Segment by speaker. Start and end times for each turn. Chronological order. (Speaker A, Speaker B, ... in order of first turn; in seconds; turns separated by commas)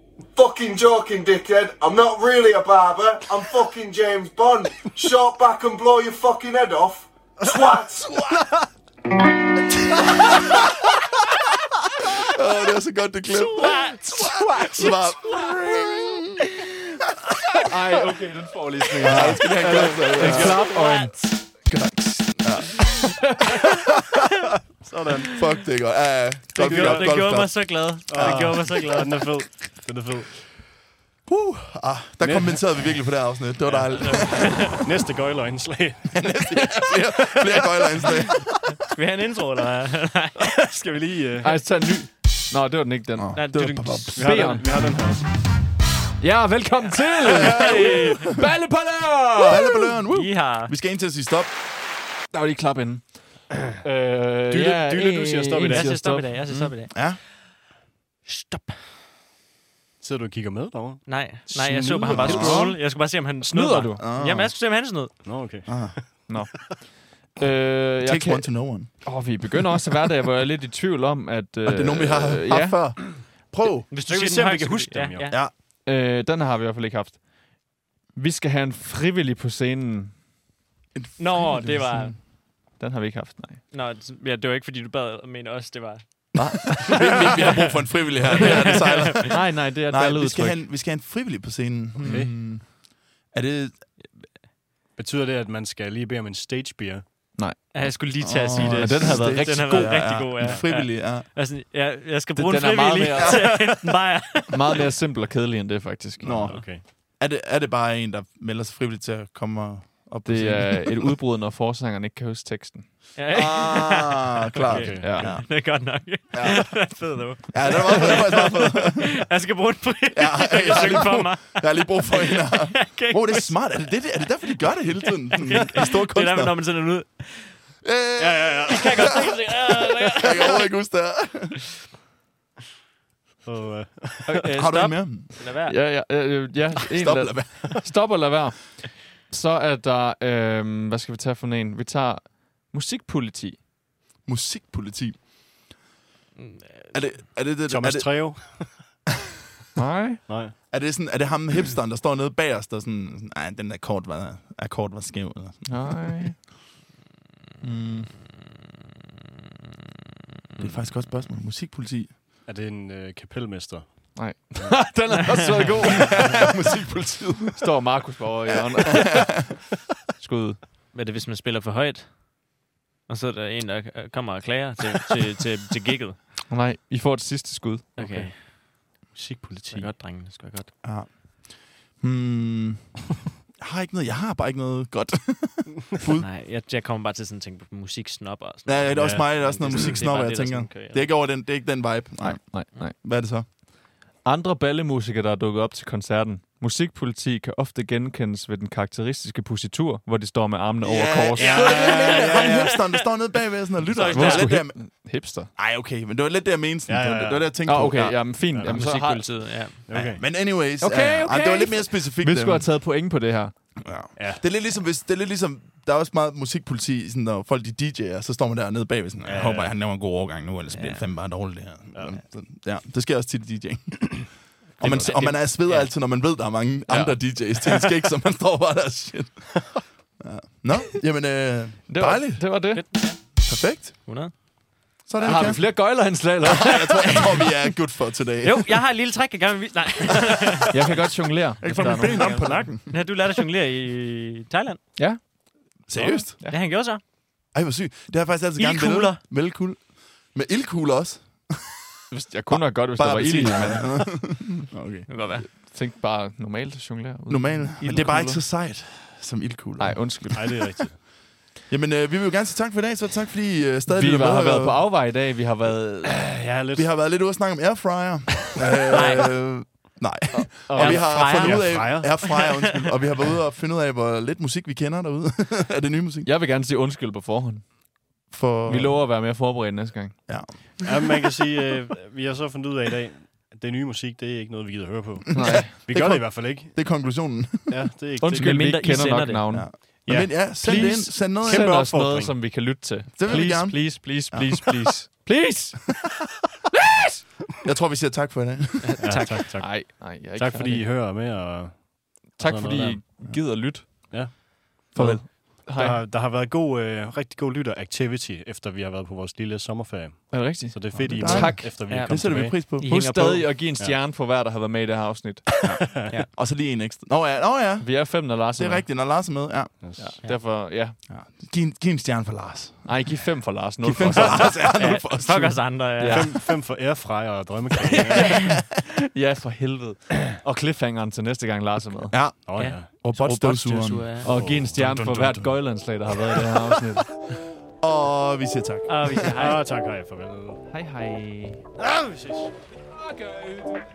Speaker A: 0.3-8.4, Speaker B: 9.9-10.9, Speaker B: 12.2-17.6, Speaker C: 13.3-15.5, Speaker D: 17.6-21.4, Speaker B: 18.9-20.6, Speaker C: 19.7-21.1, Speaker E: 19.7-20.6, Speaker B: 21.6-24.4, Speaker E: 24.8-25.3, Speaker B: 25.3-28.6, Speaker E: 26.6-27.3, Speaker C: 26.6-29.3, Speaker E: 28.1-30.3, Speaker B: 31.3-34.9, Speaker E: 32.2-32.9, Speaker E: 33.6-36.7, Speaker C: 33.9-34.8, Speaker B: 36.2-38.8, Speaker C: 37.6-38.1, Speaker C: 38.9-40.7, Speaker E: 40.4-41.6, Speaker D: 41.4-44.7, Speaker B: 43.2-44.6, Speaker C: 43.3-44.2, Speaker E: 44.2-45.3, Speaker D: 46.2-49.9, Speaker B: 47.2-48.5, Speaker C: 47.3-48.4, Speaker B: 49.4-51.5, Speaker C: 50.1-50.7, Speaker D: 52.3-53.2, Speaker D: 53.7-56.7, Speaker E: 54.5-56.0, Speaker C: 55.6-56.9, Speaker B: 56.9-57.2, Speaker C: 58.3-58.7, Speaker E: 60.0-62.6, Speaker C: 61.1-65.2, Speaker B: 62.0-62.7, Speaker D: 62.1-62.8, Speaker D: 63.4-64.0, Speaker B: 64.0-64.5, Speaker E: 65.2-66.3, Speaker B: 65.7-66.0, Speaker D: 66.3-72.8, Speaker B: 68.0-69.2, Speaker B: 71.6-73.9, Speaker C: 73.9-75.4, Speaker E: 74.1-75.3, Speaker B: 75.3-75.5, Speaker D: 75.8-77.5, Speaker D: 78.1-80.2, Speaker B: 81.0-82.2, Speaker C: 81.2-82.2, Speaker D: 82.7-83.6, Speaker C: 83.7-87.2, Speaker B: 86.3-92.8, Speaker D: 86.4-87.2, Speaker C: 88.3-89.3, Speaker D: 88.4-90.6, Speaker E: 92.0-92.3, Speaker B: 93.3-93.8, Speaker E: 95.0-97.0, Speaker D: 97.4-100.0, Speaker C: 97.7-104.9, Speaker B: 98.2-101.3, Speaker D: 102.4-103.7, Speaker B: 103.1-103.6, Speaker D: 104.5-106.7, Speaker B: 106.2-111.1, Speaker E: 106.5-106.8, Speaker D: 110.2-113.1, Speaker C: 113.2-123.6, Speaker B: 113.3-115.8, Speaker E: 114.7-115.3, Speaker D: 115.0-115.3, Speaker B: 116.3-119.2, Speaker B: 120.1-126.6, Speaker C: 124.8-127.6, Speaker B: 127.8-131.6, Speaker E: 128.2-129.2, Speaker C: 128.6-130.7, Speaker E: 133.4-134.5, Speaker C: 134.3-135.8, Speaker B: 134.6-135.3, Speaker D: 135.7-143.6, Speaker B: 136.9-137.8, Speaker B: 144.2-145.2, Speaker C: 146.4-146.9, Speaker B: 146.9-148.4, Speaker E: 147.7-148.8, Speaker D: 149.8-150.2, Speaker E: 150.3-150.5, Speaker B: 150.7-156.1, Speaker D: 155.7-156.4, Speaker B: 157.6-158.1, Speaker B: 160.6-162.1, Speaker E: 162.4-164.9, Speaker D: 164.2-166.5, Speaker B: 165.8-167.9, Speaker D: 167.6-170.6, Speaker B: 168.9-169.8, Speaker C: 170.9-172.3, Speaker C: 173.1-176.2, Speaker D: 176.5-177.9, Speaker E: 178.0-179.9, Speaker C: 178.0-178.4, Speaker C: 179.7-180.7, Speaker B: 180.8-182.9, Speaker B: 183.6-186.2, Speaker C: 186.2-191.1, Speaker B: 188.7-193.5, Speaker E: 189.0-190.0, Speaker D: 192.2-193.0, Speaker D: 194.2-201.8, Speaker B: 200.8-204.8, Speaker E: 201.4-202.7, Speaker C: 201.4-203.1, Speaker C: 203.9-204.5, Speaker D: 204.1-205.5, Speaker B: 205.5-208.3, Speaker E: 206.9-207.6, Speaker D: 207.7-209.2, Speaker E: 208.5-208.8, Speaker C: 208.7-209.9, Speaker E: 209.9-210.2, Speaker B: 209.9-212.7, Speaker D: 210.8-213.5, Speaker B: 213.8-232.5, Speaker E: 214.2-214.4, Speaker E: 219.2-219.8, Speaker E: 224.8-225.3, Speaker D: 226.9-227.2, Speaker D: 231.9-232.8, Speaker C: 232.7-234.3, Speaker B: 233.4-234.1, Speaker B: 235.1-238.8, Speaker D: 235.2-237.5, Speaker C: 238.4-240.8, Speaker D: 240.7-242.5, Speaker B: 241.6-242.9, Speaker E: 242.0-242.7, Speaker C: 242.0-244.8, Speaker B: 245.9-246.4, Speaker C: 246.0-247.0, Speaker B: 247.5-251.8, Speaker C: 248.6-249.2, Speaker D: 252.1-254.5, Speaker B: 252.5-255.1, Speaker C: 255.1-255.5, Speaker D: 255.5-258.4, Speaker B: 257.3-260.6, Speaker D: 259.8-260.8, Speaker E: 260.3-261.0, Speaker B: 261.7-264.9, Speaker D: 263.9-266.1, Speaker E: 266.0-266.9, Speaker B: 266.8-276.3, Speaker C: 268.9-269.3, Speaker D: 270.3-271.3, Speaker C: 270.7-272.9, Speaker E: 271.3-272.1, Speaker D: 276.2-277.9, Speaker B: 278.3-279.1, Speaker D: 278.7-280.2, Speaker E: 280.9-287.0, Speaker B: 285.3-288.6, Speaker D: 285.4-285.8, Speaker E: 287.7-288.5, Speaker D: 288.2-289.9, Speaker C: 288.4-289.5, Speaker B: 289.5-291.7, Speaker E: 290.0-292.4, Speaker D: 290.6-296.1, Speaker B: 293.2-294.9, Speaker C: 293.7-294.0, Speaker D: 296.8-297.2, Speaker B: 297.6-299.3, Speaker C: 298.8-299.4, Speaker E: 299.0-303.1, Speaker D: 299.6-300.9, Speaker D: 302.4-304.4, Speaker B: 304.9-305.3, Speaker D: 304.9-306.0, Speaker E: 305.6-312.6, Speaker D: 310.3-311.7, Speaker B: 311.0-313.4, Speaker C: 311.8-313.4, Speaker D: 312.8-315.5, Speaker B: 315.6-319.8, Speaker E: 315.8-316.1, Speaker D: 317.8-318.9, Speaker E: 319.8-320.1, Speaker D: 320.0-321.0, Speaker B: 321.1-323.0, Speaker D: 322.9-325.1, Speaker B: 323.8-325.7, Speaker C: 324.7-326.4, Speaker D: 325.9-326.4, Speaker E: 326.1-328.5, Speaker D: 328.9-332.2, Speaker B: 332.1-334.2, Speaker E: 332.5-332.9, Speaker C: 332.6-334.3, Speaker D: 333.2-333.6, Speaker D: 334.2-337.3, Speaker E: 334.3-334.9, Speaker B: 334.8-335.6, Speaker B: 337.8-339.3, Speaker C: 338.9-339.6, Speaker E: 339.4-340.6, Speaker D: 340.7-341.6, Speaker E: 341.8-342.5, Speaker D: 343.1-343.7